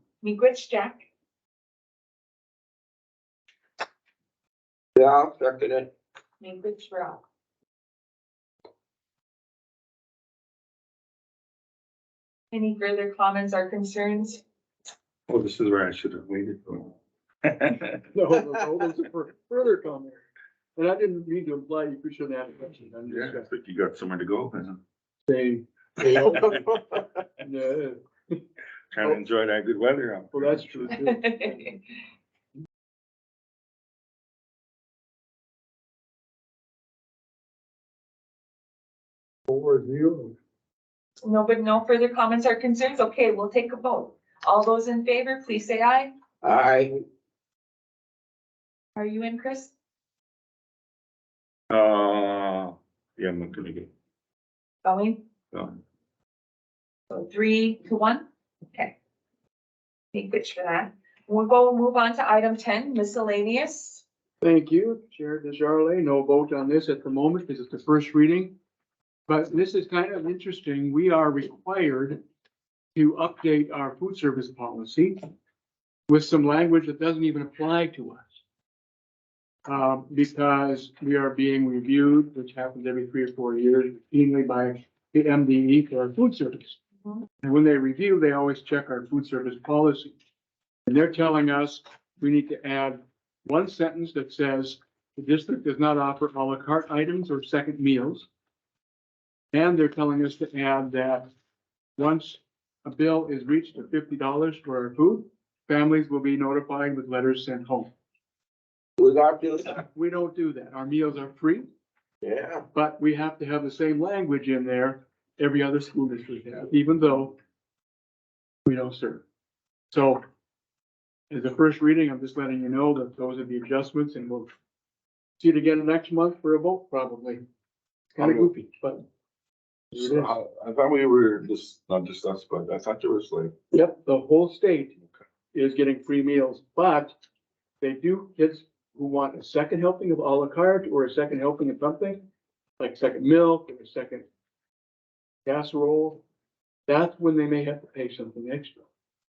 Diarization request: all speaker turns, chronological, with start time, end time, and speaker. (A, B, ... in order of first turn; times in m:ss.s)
0:00.2-0:01.0 A
0:05.0-0:05.9 B
0:06.4-0:07.2 A
0:12.5-0:14.4 A
0:15.3-0:18.0 C
0:18.1-0:23.5 D
0:23.1-0:24.8 C
0:25.2-0:26.1 D
0:26.0-0:27.0 B
0:26.2-0:26.6 C
0:27.4-0:28.4 D
0:28.9-0:31.0 C
0:30.3-0:31.8 D
0:31.0-0:31.8 A
0:41.2-0:46.1 A
0:46.4-0:47.0 B
0:49.0-0:49.7 A
0:51.7-0:53.9 C
0:54.8-0:55.2 A
0:55.5-0:55.8 C
0:57.1-0:58.9 A
1:00.1-1:04.0 A
1:04.4-1:08.5 D
1:09.3-1:12.2 D
1:12.9-1:15.2 D
1:16.1-1:18.3 D
1:19.6-1:26.8 D
1:27.4-1:30.1 D
1:30.8-1:38.3 D
1:39.5-1:41.3 D
1:42.0-1:47.9 D
1:49.0-1:49.8 B
1:49.9-1:51.6 D
1:52.2-1:52.6 B
1:52.7-1:57.4 D
1:58.6-1:59.2 D
1:59.9-2:00.2 D
2:01.3-2:04.5 D
2:05.4-2:07.4 D
2:08.2-2:09.0 D
2:08.2-2:08.5 C
2:09.9-2:10.4 D
2:09.9-2:13.5 C
2:13.7-2:14.9 D
2:15.5-2:17.1 D
2:17.8-2:22.2 D
2:22.8-2:24.2 D
2:25.4-2:26.2 D
2:26.9-2:28.8 D